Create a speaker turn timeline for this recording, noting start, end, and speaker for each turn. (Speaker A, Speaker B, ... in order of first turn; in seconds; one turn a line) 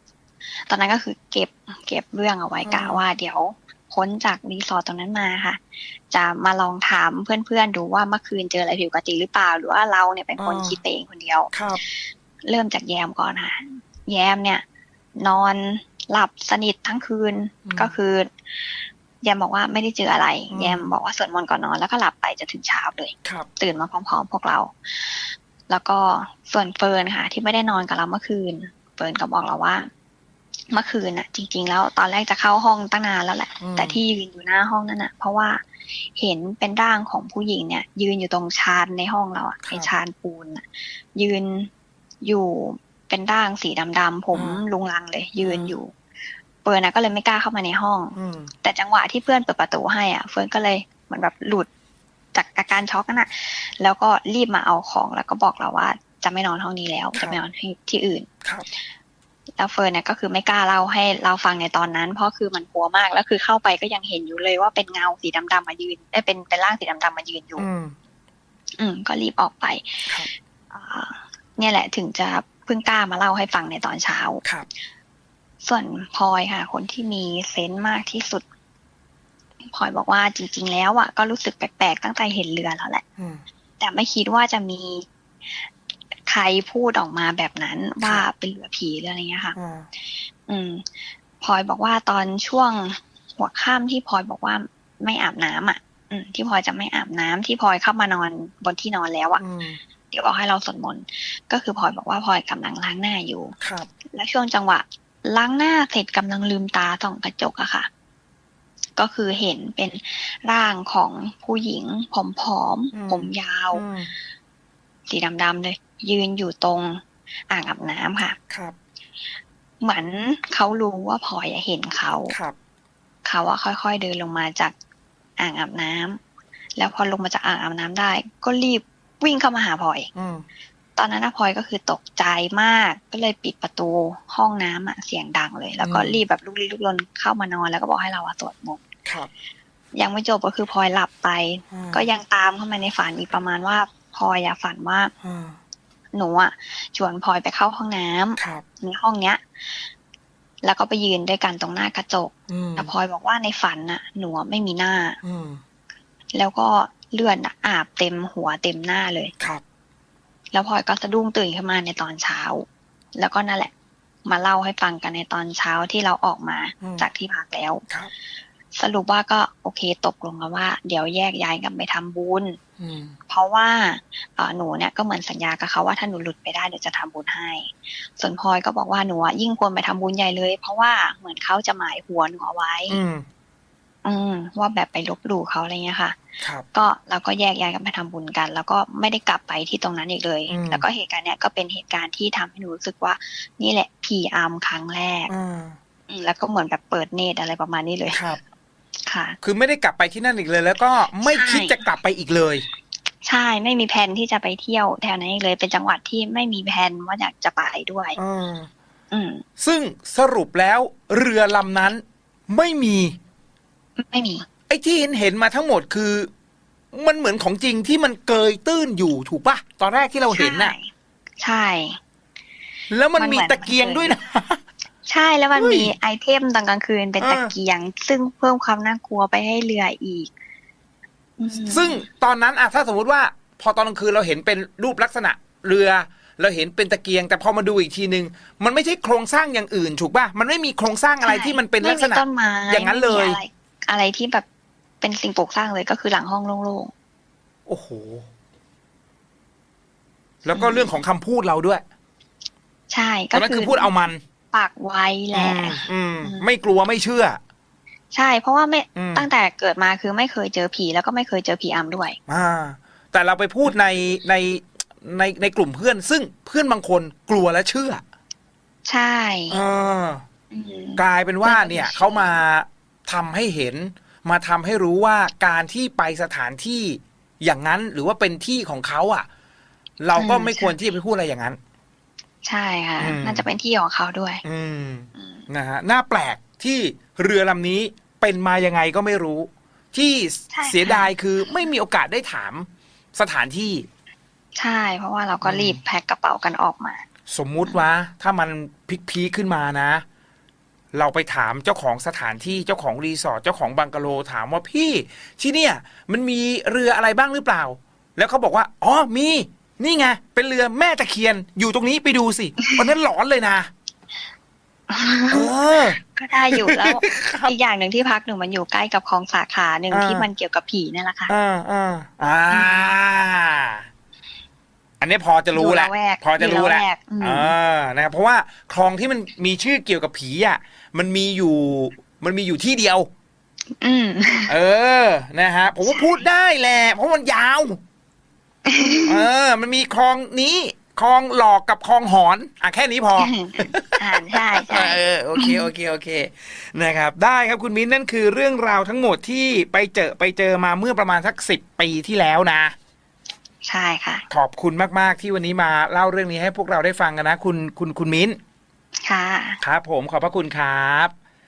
Speaker A: 0.7-14.6
Speaker B: 2.6-3.0
Speaker B: 10.4-10.8
Speaker B: 11.5-11.8
Speaker A: 15.2-18.7
Speaker B: 17.6-17.9
Speaker A: 19.2-29.9
Speaker B: 20.5-20.9
Speaker A: 30.7-41.7
Speaker B: 33.6-34.0
Speaker B: 39.6-39.9
Speaker A: 42.2-45.9
Speaker B: 44.3-44.6
Speaker B: 45.4-45.7
Speaker A: 46.6-51.7
Speaker B: 48.1-48.5
Speaker A: 52.3-58.3
Speaker A: 59.6-67.7
Speaker B: 67.6-67.9
Speaker A: 68.8-74.4
Speaker A: 75.6-78.4
Speaker A: 79.7-83.0
Speaker B: 83.2-83.4
Speaker A: 83.8-85.7
Speaker A: 86.3-89.5
Speaker B: 89.5-89.9
Speaker A: 90.5-99.4
Speaker B: 99.4-99.8
Speaker A: 100.1-103.5
Speaker B: 103.6-103.9
Speaker A: 104.1-107.9
Speaker A: 109.0-113.8
Speaker B: 112.9-114.1
Speaker A: 115.1-118.4
Speaker B: 118.5-118.7
Speaker A: 119.8-122.3
Speaker B: 122.3-122.5
Speaker A: 123.2-124.7
Speaker A: 125.4-126.2
Speaker A: 126.8-130.1
Speaker B: 130.1-130.4
Speaker A: 131.0-138.8
Speaker B: 135.8-136.2
Speaker B: 139.0-139.3
Speaker A: 140.0-145.1
Speaker B: 141.7-142.0
Speaker B: 145.2-145.6
Speaker A: 146.1-149.9
Speaker B: 148.4-148.6
Speaker A: 150.6-155.2
Speaker B: 152.5-152.9
Speaker B: 155.2-155.6
Speaker A: 156.3-159.3
Speaker A: 160.5-163.7
Speaker A: 164.2-167.8
Speaker B: 166.8-167.1
Speaker A: 168.7-172.6
Speaker B: 172.8-173.2
Speaker A: 173.3-183.0
Speaker B: 182.9-183.2
Speaker A: 184.0-186.2
Speaker A: 186.7-195.3
Speaker B: 190.5-190.8
Speaker B: 195.3-195.8
Speaker A: 196.1-198.2
Speaker B: 198.1-198.4
Speaker A: 199.1-199.4
Speaker B: 199.4-202.6
Speaker A: 201.2-201.8
Speaker A: 203.2-208.2
Speaker B: 208.2-208.7
Speaker A: 209.1-209.4
Speaker B: 209.6-213.2
Speaker A: 214.0-214.4
Speaker B: 214.7-216.3
Speaker B: 216.9-220.7
Speaker A: 220.3-222.0
Speaker B: 222.9-224.6
Speaker A: 223.2-224.2
Speaker A: 225.1-230.3
Speaker B: 225.6-225.9
Speaker B: 227.2-227.5
Speaker A: 231.4-232.1
Speaker B: 231.5-243.4
Speaker A: 241.2-244.4
Speaker A: 245.0-246.9
Speaker B: 247.7-248.2
Speaker B: 250.4-251.8
Speaker A: 250.5-251.0
Speaker A: 252.9-253.9
Speaker B: 253.3-254.2
Speaker A: 254.5-256.5
Speaker B: 255.3-257.4
Speaker A: 258.1-262.2
Speaker B: 258.9-259.3
Speaker B: 262.3-268.0
Speaker A: 268.9-269.6
Speaker B: 269.5-270.2
Speaker A: 270.5-272.4
Speaker B: 271.0-279.3
Speaker B: 280.0-281.6
Speaker A: 280.1-280.8
Speaker A: 282.4-284.4
Speaker B: 283.0-283.5
Speaker B: 284.4-293.9
Speaker A: 285.1-285.5
Speaker A: 290.5-291.1
Speaker A: 294.6-297.0
Speaker B: 295.4-295.8
Speaker B: 297.3-300.0
Speaker B: 300.9-313.7
Speaker A: 314.9-321.3
Speaker B: 315.3-316.0
Speaker B: 316.5-317.5
Speaker B: 319.9-320.3
Speaker B: 321.3-323.9
Speaker A: 322.5-322.9
Speaker B: 325.0-333.1
Speaker A: 325.5-327.5
Speaker A: 333.8-334.5
Speaker B: 334.5-337.8
Speaker A: 335.8-336.2
Speaker A: 338.6-339.2
Speaker B: 339.1-352.7
Speaker A: 343.2-345.6
Speaker A: 353.6-354.2
Speaker B: 354.3-358.4
Speaker A: 359.0-359.6
Speaker B: 359.6-361.1